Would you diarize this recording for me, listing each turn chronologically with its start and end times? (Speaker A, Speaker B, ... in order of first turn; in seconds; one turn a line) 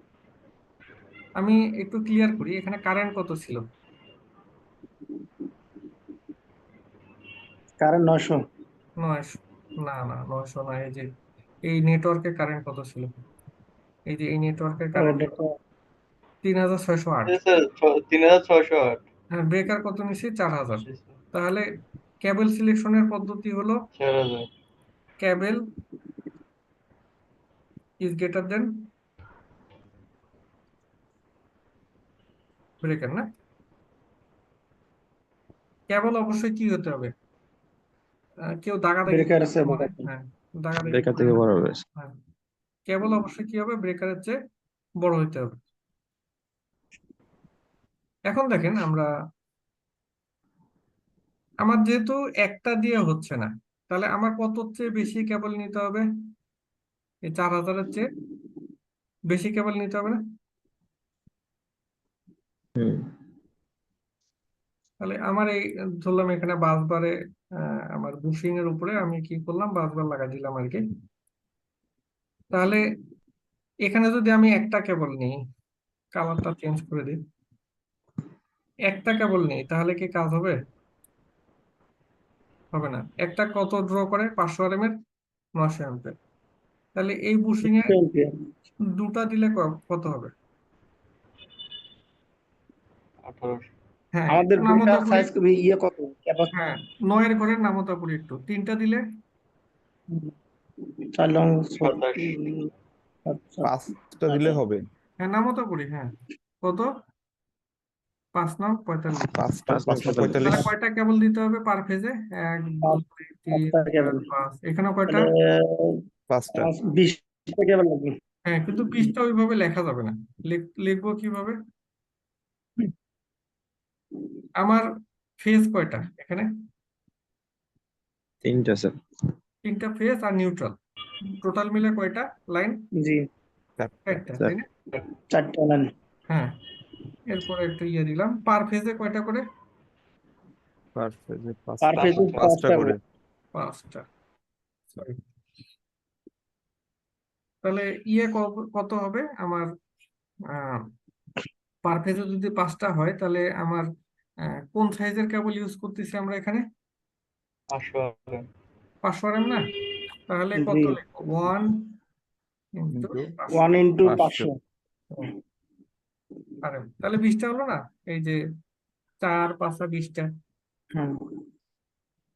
Speaker A: 1.4-3.6
Speaker B: 7.8-8.4
Speaker A: 9.0-11.1
Speaker A: 11.7-13.1
Speaker A: 14.1-15.2
Speaker B: 15.0-15.5
Speaker A: 16.4-17.4
Speaker C: 17.3-19.0
Speaker A: 19.3-21.6
Speaker C: 20.8-21.2
Speaker A: 22.2-23.8
Speaker C: 23.9-24.5
Speaker A: 25.2-25.6
Speaker A: 28.0-28.7
Speaker A: 32.8-33.2
Speaker A: 35.9-37.1
Speaker A: 38.6-42.1
Speaker B: 39.1-40.1
Speaker D: 40.8-41.8
Speaker A: 42.9-44.3
Speaker A: 45.0-45.5
Speaker A: 48.3-49.1
Speaker A: 51.6-56.0
Speaker A: 57.3-58.0
Speaker A: 59.3-60.2
Speaker D: 62.8-63.1
Speaker A: 65.0-67.1
Speaker A: 68.0-70.8
Speaker A: 72.5-72.8
Speaker A: 73.9-75.3
Speaker A: 76.2-77.2
Speaker A: 78.9-80.5
Speaker A: 82.7-84.9
Speaker A: 85.6-86.1
Speaker A: 87.0-87.9
Speaker B: 87.6-88.3
Speaker A: 89.0-90.3
Speaker C: 93.2-93.7
Speaker A: 94.1-95.3
Speaker B: 94.3-96.5
Speaker A: 96.5-99.0
Speaker B: 101.2-102.6
Speaker C: 101.8-102.4
Speaker B: 103.3-103.7
Speaker E: 103.6-104.8
Speaker A: 105.2-106.9
Speaker A: 108.3-109.3
Speaker E: 109.3-110.7
Speaker D: 109.7-110.4
Speaker A: 110.4-115.2
Speaker B: 112.8-114.2
Speaker B: 115.1-116.0
Speaker E: 116.3-116.7
Speaker B: 116.5-118.2
Speaker A: 118.5-121.6
Speaker A: 124.6-124.8
Speaker A: 125.4-126.5
Speaker D: 128.4-128.9
Speaker A: 129.6-130.8
Speaker A: 131.4-132.8
Speaker E: 133.8-134.6
Speaker A: 134.1-134.6
Speaker B: 135.3-135.9
Speaker A: 137.3-139.4
Speaker E: 140.9-143.0
Speaker B: 141.8-142.9
Speaker C: 141.9-142.5
Speaker A: 143.5-144.0
Speaker A: 144.9-145.2
Speaker A: 147.6-149.7
Speaker A: 151.8-153.8
Speaker A: 154.7-156.6
Speaker C: 157.7-158.4
Speaker A: 159.0-159.6
Speaker A: 160.3-161.7
Speaker B: 160.6-161.0
Speaker A: 162.8-163.7
Speaker E: 162.9-163.3
Speaker B: 163.5-164.5
Speaker E: 164.0-164.5
Speaker A: 166.6-168.4
Speaker A: 169.2-170.2